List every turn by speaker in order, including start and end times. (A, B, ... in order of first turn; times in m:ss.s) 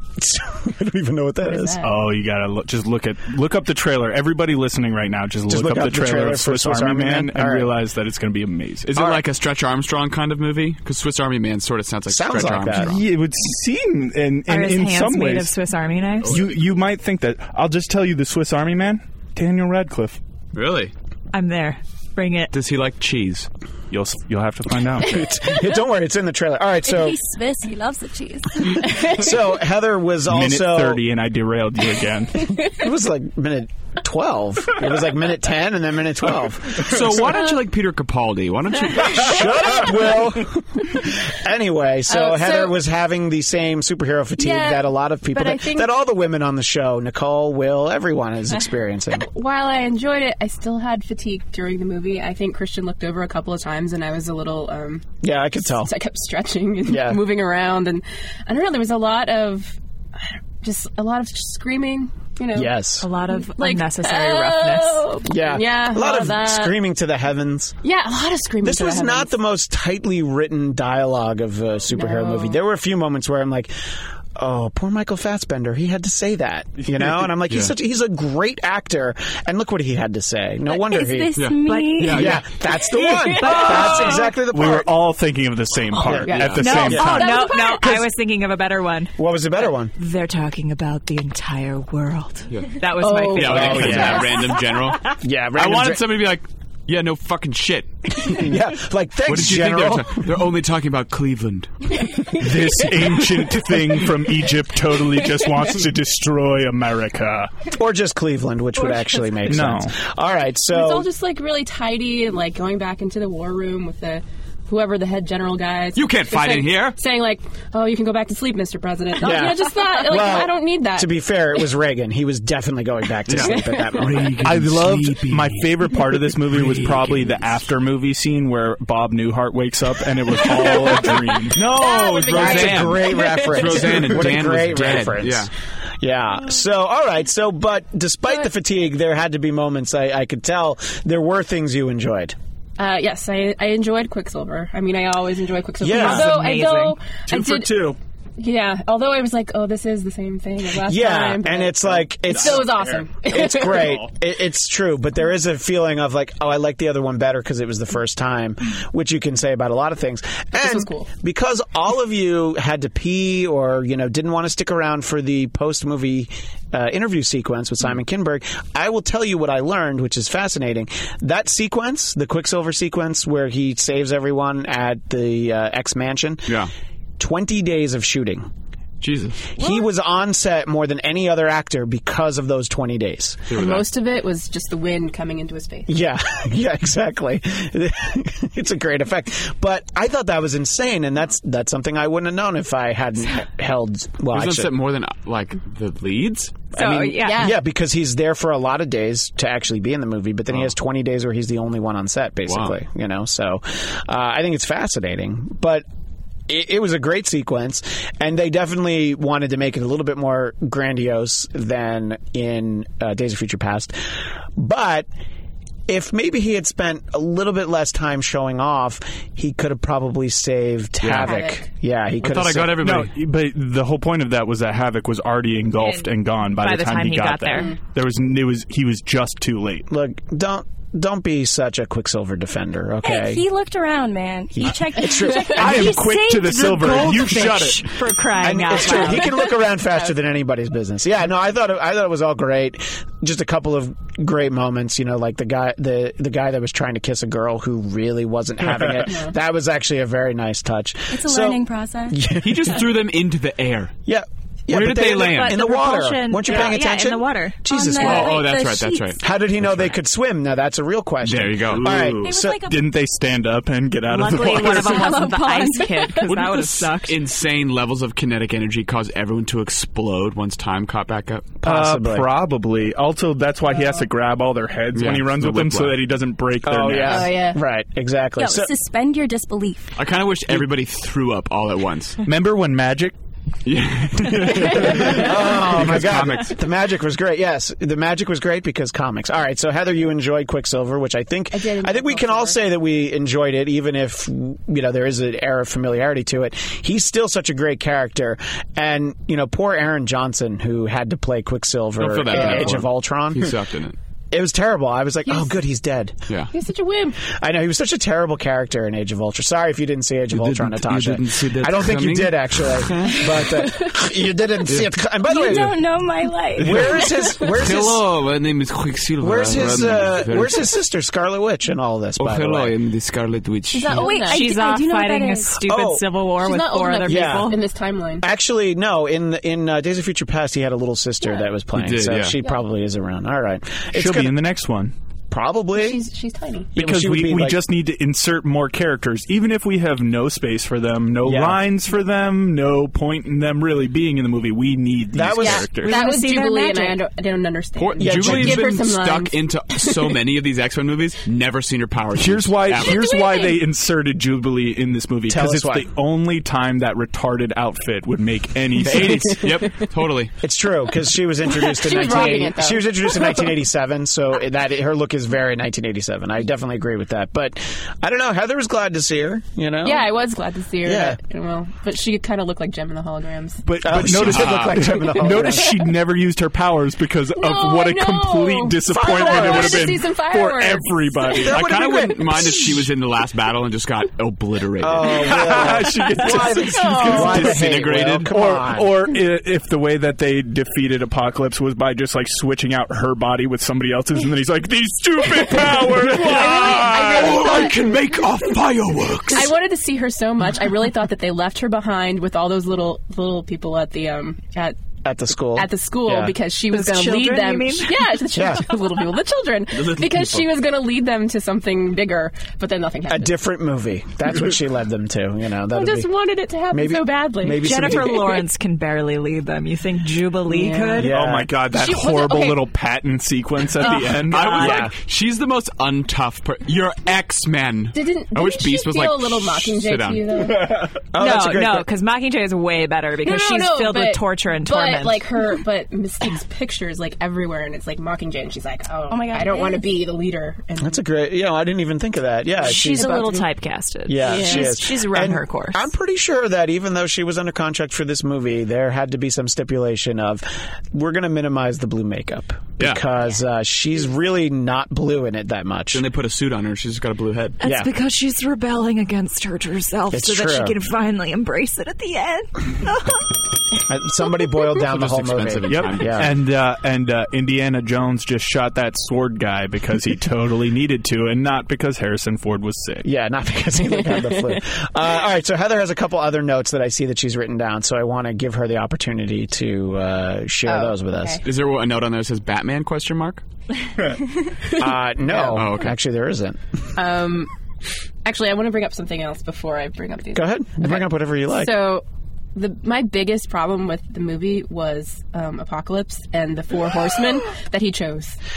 0:00.2-0:01.8 A
0:01.4-0:02.0 B
0:01.8-0:09.0 C
0:05.5-0:07.8 A
0:08.9-0:13.0 D
0:09.0-0:09.2 A
0:12.1-0:13.0 A
0:12.7-0:15.5 C
0:14.5-0:16.4 E
0:16.3-0:20.2 C
0:20.5-0:20.9 D
0:21.3-0:22.5 E
0:22.5-0:23.5 D
0:23.9-0:25.4 C
0:25.0-0:27.2 A
0:26.8-0:29.1 F
0:28.8-0:31.0 A
0:30.3-0:32.6 C
0:32.7-0:37.5 A
0:36.8-0:39.8 D
0:39.1-0:49.3 A
0:42.1-0:42.8 B
0:44.4-0:45.9 B
0:49.2-1:02.8 B
0:55.2-0:55.9 A
0:56.9-0:57.2 A
1:02.5-1:03.1 A
1:03.0-1:05.1 E
1:03.3-1:06.8 B
1:05.2-1:07.8 A
1:07.8-1:09.4 B
1:08.6-1:21.4 A
1:11.9-1:12.6 B
1:16.9-1:17.2 C
1:17.5-1:17.7 D
1:20.7-1:22.4 F
1:21.4-1:22.5 D
1:21.6-1:22.2 E
1:22.1-1:24.9 A
1:22.8-1:24.3 B
1:23.3-1:24.3 E
1:24.5-1:27.5 C
1:25.9-1:27.8 B
1:26.1-1:27.2 A
1:26.3-1:26.6 D
1:26.6-1:29.2 E
1:29.2-1:29.9 A
1:29.9-1:35.1 E
1:33.0-1:34.3 B
1:33.3-1:38.5 D
1:33.4-1:34.4 A
1:33.7-1:34.1 C
1:35.2-1:36.1 A
1:38.2-1:40.3 A
1:39.3-1:42.0 D
1:42.1-1:42.5 B
1:42.3-1:47.5 C
1:47.7-1:51.1 A
1:48.8-1:49.6 B
1:49.5-1:50.0 C
1:50.7-2:01.1 B
1:56.0-1:57.0 D
1:59.2-2:04.5 A
2:03.3-2:07.4 D
2:03.4-2:04.3 B
2:04.4-2:13.0 C
2:11.5-2:15.5 D
2:11.5-2:14.1 B
2:12.3-2:22.4 A
2:22.8-2:34.0 B
2:25.8-2:26.4 A
2:25.9-2:27.0 E
2:27.3-2:28.0 C
2:30.8-2:56.6 A
2:32.3-2:33.0 C
2:33.6-2:34.1 C
2:40.6-2:41.1 B
2:57.2-2:58.5 A
2:59.0-2:59.5 D
2:59.6-3:03.6 A
3:03.5-3:03.9 D
3:03.5-3:06.0 B
3:05.9-3:14.7 A
3:14.3-3:16.6 D
3:16.7-3:17.5 E
3:16.8-3:17.6 B
3:16.9-3:25.8 A
3:22.5-3:22.8 D
3:26.5-3:35.1 A
3:35.9-3:42.8 A
3:41.0-3:41.3 D
3:41.2-3:41.7 B
3:42.2-3:43.1 D
3:42.8-3:49.9 C
3:45.8-3:47.7 E
3:49.9-3:53.4 A
3:53.0-3:56.2 F
3:54.6-3:55.9 A
3:55.4-3:57.9 C
3:55.8-3:59.3 E
3:58.4-4:12.8 A
4:09.1-4:09.3 B
4:11.1-4:12.3 F
4:12.4-4:13.9 D
4:14.1-4:18.5 A
4:14.7-4:15.6 D
4:15.2-4:17.6 E
4:17.7-4:19.2 F
4:18.0-4:20.0 D
4:19.2-4:22.6 A
4:21.2-4:21.8 D
4:21.7-4:25.2 C
4:22.2-4:22.9 F
4:24.1-4:27.2 E
4:24.3-4:26.4 F
4:26.3-4:31.5 D
4:31.6-4:32.3 A
4:31.6-4:37.3 C
4:34.9-4:36.0 D
4:36.6-4:38.7 A
4:37.0-4:37.6 B
4:38.4-4:40.0 F
4:40.0-4:42.2 D
4:42.2-4:43.1 C
4:43.6-4:46.6 D
4:44.3-4:45.1 C
4:44.7-5:03.6 A
4:45.8-4:46.3 C
4:51.5-4:52.6 B
5:02.0-5:04.0 D
5:02.3-5:02.8 B
5:04.3-5:06.2 A
5:05.3-5:05.6 B
5:06.5-5:07.2 B
5:07.3-5:15.8 A
5:10.3-5:13.5 D
5:14.7-5:14.9 D
5:15.2-5:17.2 F
5:16.6-5:18.0 A
5:16.6-5:16.9 D
5:17.5-5:20.7 D
5:19.2-5:22.8 A
5:22.2-5:24.1 D
5:23.7-5:24.5 B
5:23.9-5:25.6 F
5:24.2-5:27.6 E
5:25.6-5:26.0 A
5:26.4-5:28.3 B
5:27.0-5:27.6 A
5:28.2-5:34.3 A
5:31.7-5:32.4 D
5:33.9-5:34.9 C
5:35.3-5:36.0 A
5:35.8-5:36.7 B
5:36.8-5:37.6 A
5:36.8-5:46.0 C
5:41.2-5:41.6 A
5:45.1-5:45.7 A
5:45.4-5:50.2 B
5:45.8-5:47.0 E
5:47.8-5:53.1 D
5:48.0-5:48.8 A
5:52.2-5:59.7 C
5:52.9-5:53.6 B
5:55.3-5:55.9 A
5:58.9-6:00.3 D
6:00.4-6:10.1 A
6:01.5-6:03.5 B
6:09.8-6:13.6 B
6:10.8-6:11.2 A
6:13.7-6:22.7 C
6:13.8-6:15.8 A
6:14.1-6:14.8 D
6:15.2-6:15.8 B
6:17.4-6:21.4 B
6:18.9-6:20.0 A
6:21.3-6:22.9 A
6:21.4-6:25.3 D
6:24.8-6:28.9 A
6:25.1-6:37.8 C
6:26.3-6:27.6 B
6:27.4-6:28.3 D
6:36.0-6:37.8 B
6:36.0-6:39.5 D
6:39.3-6:44.8 B
6:45.0-6:46.4 A
6:45.5-6:53.4 B
6:46.7-6:48.2 E
6:48.3-6:48.7 A
6:49.7-6:50.5 D
6:53.1-6:56.1 A
6:55.7-6:58.3 B
6:56.7-6:58.4 A
6:57.6-7:01.1 E
7:00.5-7:01.2 B
7:01.0-7:01.5 A
7:01.0-7:04.8 C
7:01.7-7:02.6 B
7:03.8-7:04.8 E
7:04.3-7:10.4 D
7:04.6-7:04.9 A
7:07.9-7:10.9 B
7:11.1-7:11.9 A
7:11.2-7:15.3 E
7:13.2-7:21.0 B
7:19.1-7:19.9 F
7:20.8-7:23.3 A
7:22.6-7:25.9 E
7:22.7-7:23.5 B
7:24.1-7:36.1 A
7:24.2-7:24.7 B
7:35.9-7:37.6 D
7:37.6-7:43.2 E
7:37.6-7:37.9 A
7:40.1-7:40.8 A
7:43.9-7:46.3 A
7:44.9-7:46.3 D
7:45.7-7:53.1 C
7:53.0-8:01.4 A
7:53.8-7:54.6 B
8:00.7-8:01.4 B
8:01.4-8:03.4 D
8:04.7-8:05.7 B
8:04.8-8:06.6 A
8:05.5-8:06.0 D
8:07.0-8:07.5 B
8:08.2-8:18.4 B
8:10.3-8:11.8 A